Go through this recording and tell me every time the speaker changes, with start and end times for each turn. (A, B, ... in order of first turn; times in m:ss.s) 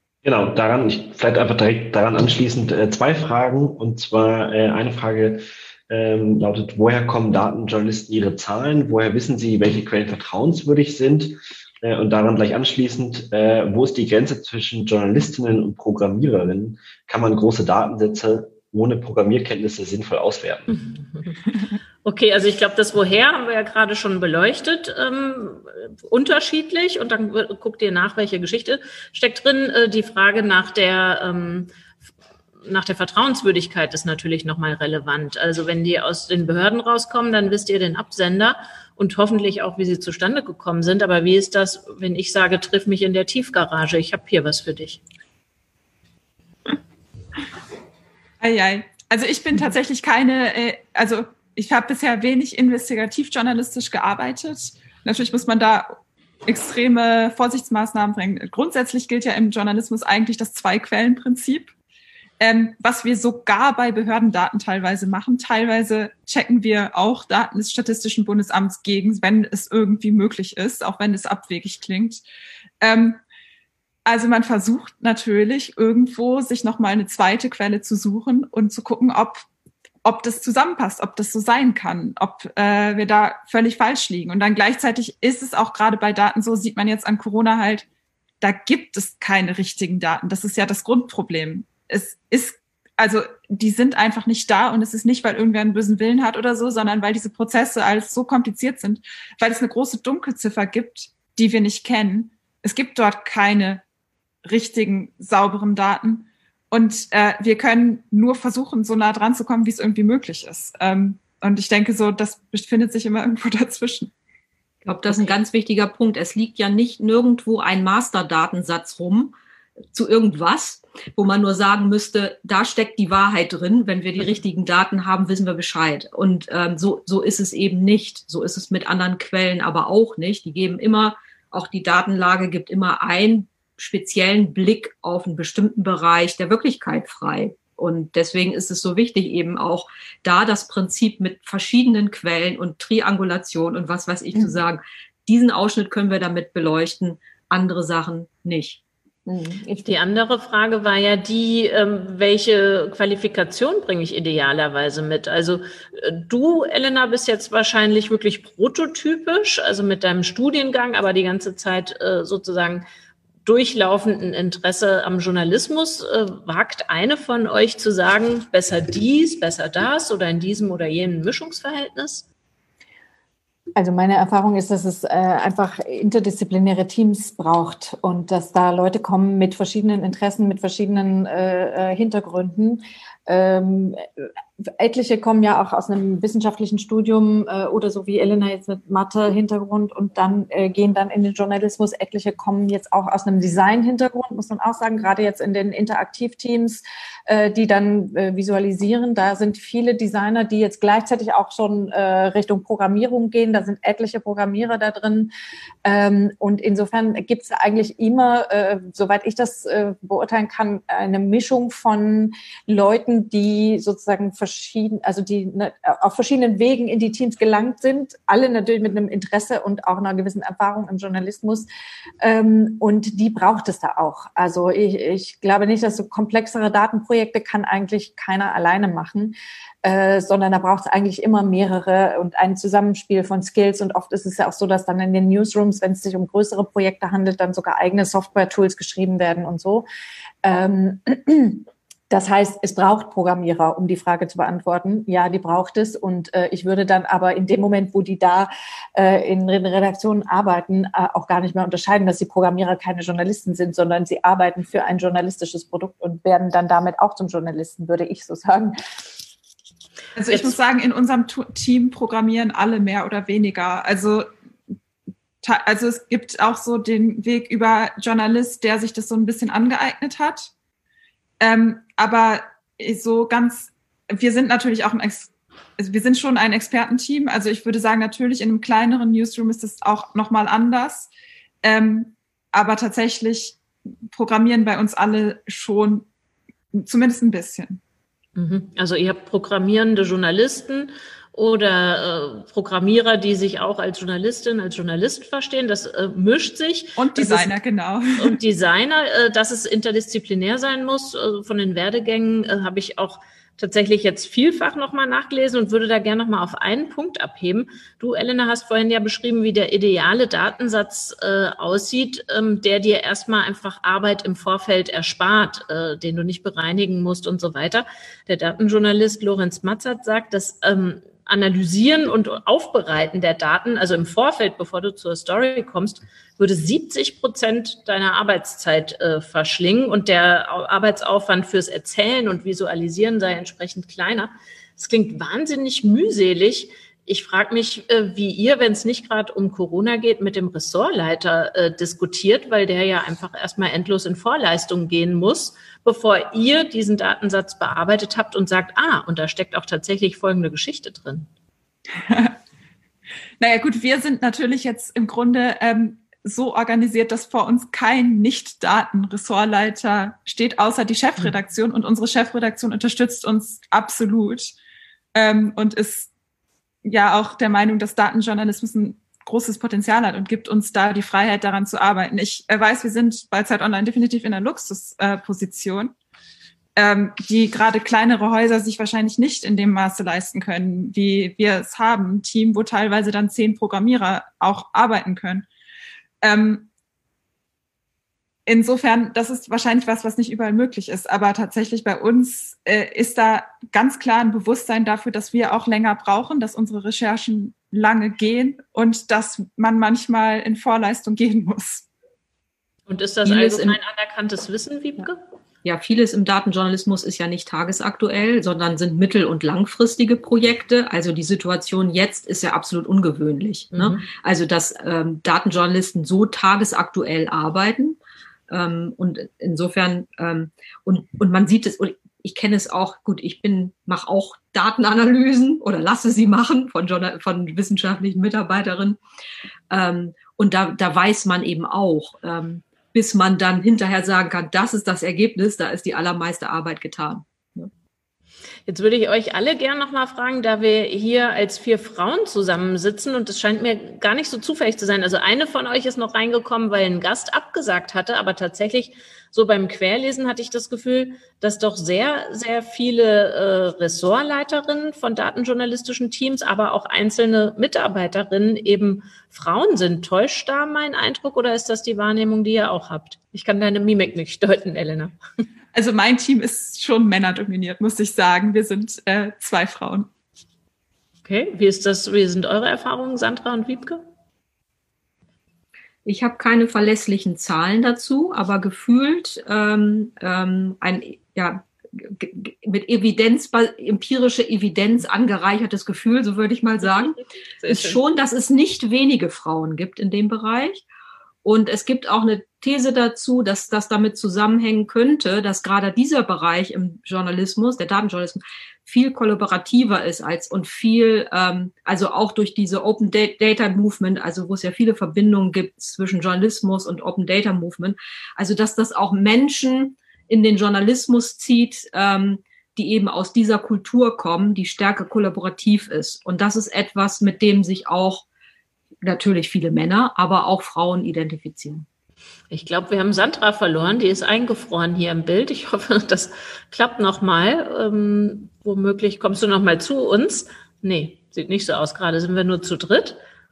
0:00.2-0:20.7 A
0:20.7-0:21.4 B
0:22.0-0:31.7 B
0:32.6-0:45.0 B
0:48.4-1:01.7 C
1:02.4-1:12.2 C
1:12.8-1:13.2 C
1:14.0-1:19.5 C
1:20.0-1:27.9 C
1:28.4-1:43.8 C
1:44.4-1:54.1 C
1:54.8-1:59.3 D
1:59.9-2:28.8 D
2:29.3-2:29.9 E
2:29.8-2:42.8 B
2:43.4-2:52.2 B
2:53.8-3:25.3 E
3:25.8-3:41.7 E
3:42.2-3:59.8 E
4:00.4-4:18.8 E
4:20.2-4:24.3 C
4:25.4-4:30.5 C
4:31.4-4:41.1 C
4:41.6-4:46.1 C
4:46.7-4:47.8 C
4:48.4-4:57.5 B
4:57.0-4:58.4 C
4:58.2-5:51.3 B
5:52.0-5:52.4 C
5:53.4-6:04.6 C
6:05.1-6:06.1 C
6:06.8-6:15.9 C
6:16.8-6:25.5 C
6:26.2-6:26.7 C
6:28.5-6:41.9 C
6:42.9-6:45.2 B
6:43.3-6:43.8 D
6:45.6-6:58.0 D
6:53.7-6:54.0 B
6:58.5-7:09.0 D
7:09.7-7:17.7 D
7:18.7-7:45.2 B
7:45.7-7:50.1 C
7:51.2-7:54.0 B
7:56.0-8:10.8 D
8:06.8-8:08.0 B
8:11.4-8:38.2 D
8:39.0-8:41.9 D
8:42.5-8:53.2 B